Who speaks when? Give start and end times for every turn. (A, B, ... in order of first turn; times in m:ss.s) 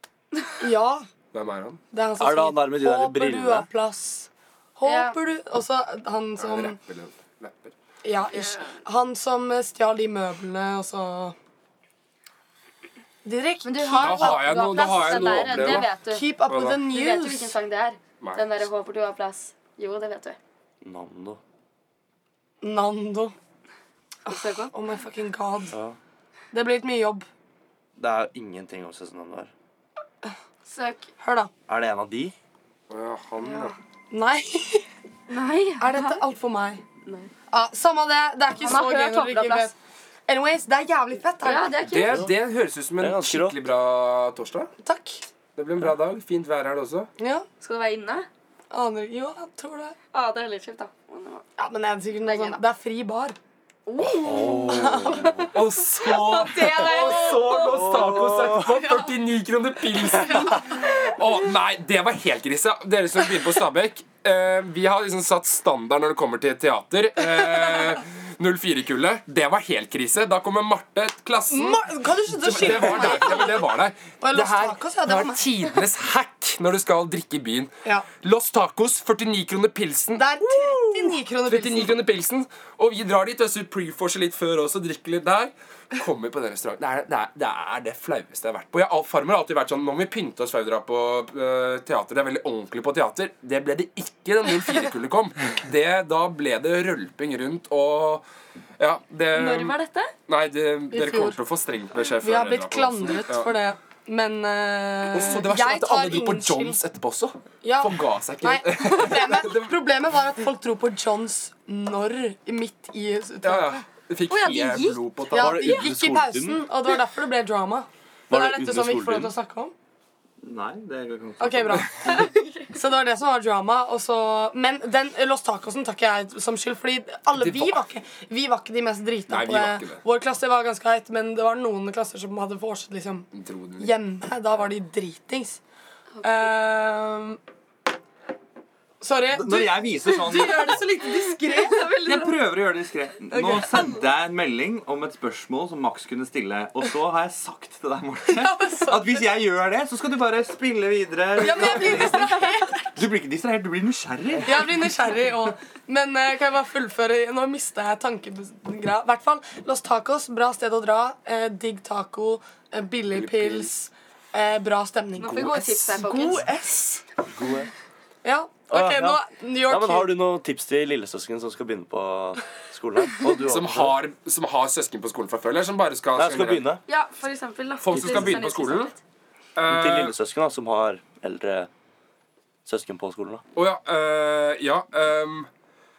0:00.6-0:01.1 A
0:01.3-0:01.8 B
0:01.9-0:06.8 A
0:02.2-0:03.7 C
0:04.8-0:05.2 D
0:06.4-0:07.7 B
0:08.0-0:11.4 A
0:08.4-0:08.7 D
0:13.2-0:17.6 A
0:13.6-0:16.2 D
0:13.9-0:16.8 B
0:16.9-0:20.4 D
0:18.2-0:18.6 B
0:20.8-0:21.4 C
0:22.6-0:23.4 A
0:24.3-0:24.7 D
0:24.3-0:25.8 A
0:25.7-0:26.0 C
0:26.5-0:27.3 A
0:28.0-0:29.5 C
0:30.6-0:31.1 D
0:31.2-0:31.5 A
0:31.7-0:32.3 C
0:32.9-0:33.8 B
0:33.4-0:33.7 D
0:34.1-0:34.9 A
0:35.3-0:36.2 D
0:35.8-0:36.8 A
0:37.0-0:37.3 D
0:37.5-0:39.8 A
0:38.6-0:39.7 D
0:40.3-0:41.8 A
0:41.4-0:42.3 D
0:41.8-0:44.7 B
0:43.0-0:43.6 C
0:44.8-0:45.2 A
0:45.6-0:47.1 B
0:47.2-0:47.5 A
0:47.6-0:48.3 D
0:48.7-0:50.0 A
0:50.1-0:51.5 D
0:51.6-0:53.4 A
0:52.2-0:52.6 D
0:53.9-0:55.5 D
0:54.2-0:55.5 C
0:54.7-0:55.5 A
0:55.5-1:11.8 B
0:56.0-0:57.9 D
0:56.7-0:57.4 A
0:57.9-0:58.6 C
1:11.5-1:15.5 A
1:12.4-1:38.2 B
1:20.2-1:22.1 A
1:38.8-1:39.8 B
1:39.3-1:40.1 D
1:40.3-1:43.5 B
1:40.9-1:41.4 A
1:42.2-1:46.8 A
1:45.1-1:49.7 B
1:47.6-1:53.8 A
1:53.4-1:55.7 B
1:54.3-1:55.1 D
1:55.3-1:59.7 A
1:55.3-1:56.7 C
1:58.3-1:59.3 C
2:00.4-2:02.3 E
2:01.4-2:01.9 A
2:02.7-2:15.6 A
2:07.4-2:07.8 B
2:09.3-2:10.0 B
2:13.3-2:13.9 B
2:16.1-2:16.5 D
2:16.2-2:17.4 A
2:19.0-2:22.0 A
2:19.3-2:20.8 E
2:20.3-2:22.4 D
2:22.0-2:32.4 E
2:23.4-2:23.8 A
2:28.3-2:29.4 A
2:31.4-2:32.9 A
2:33.0-2:34.9 E
2:34.4-2:47.0 A
2:43.1-2:43.7 B
2:45.2-2:46.5 D
2:45.2-2:45.6 B
2:47.4-2:47.7 C
2:48.2-2:50.1 A
2:48.7-2:54.0 C
2:53.4-2:56.7 B
2:56.2-2:56.8 C
2:56.9-2:59.0 D
2:57.8-2:58.9 B
2:58.0-2:58.4 C
2:59.6-3:00.2 B
2:59.7-3:01.7 C
3:02.7-3:03.4 C
3:03.6-3:05.5 B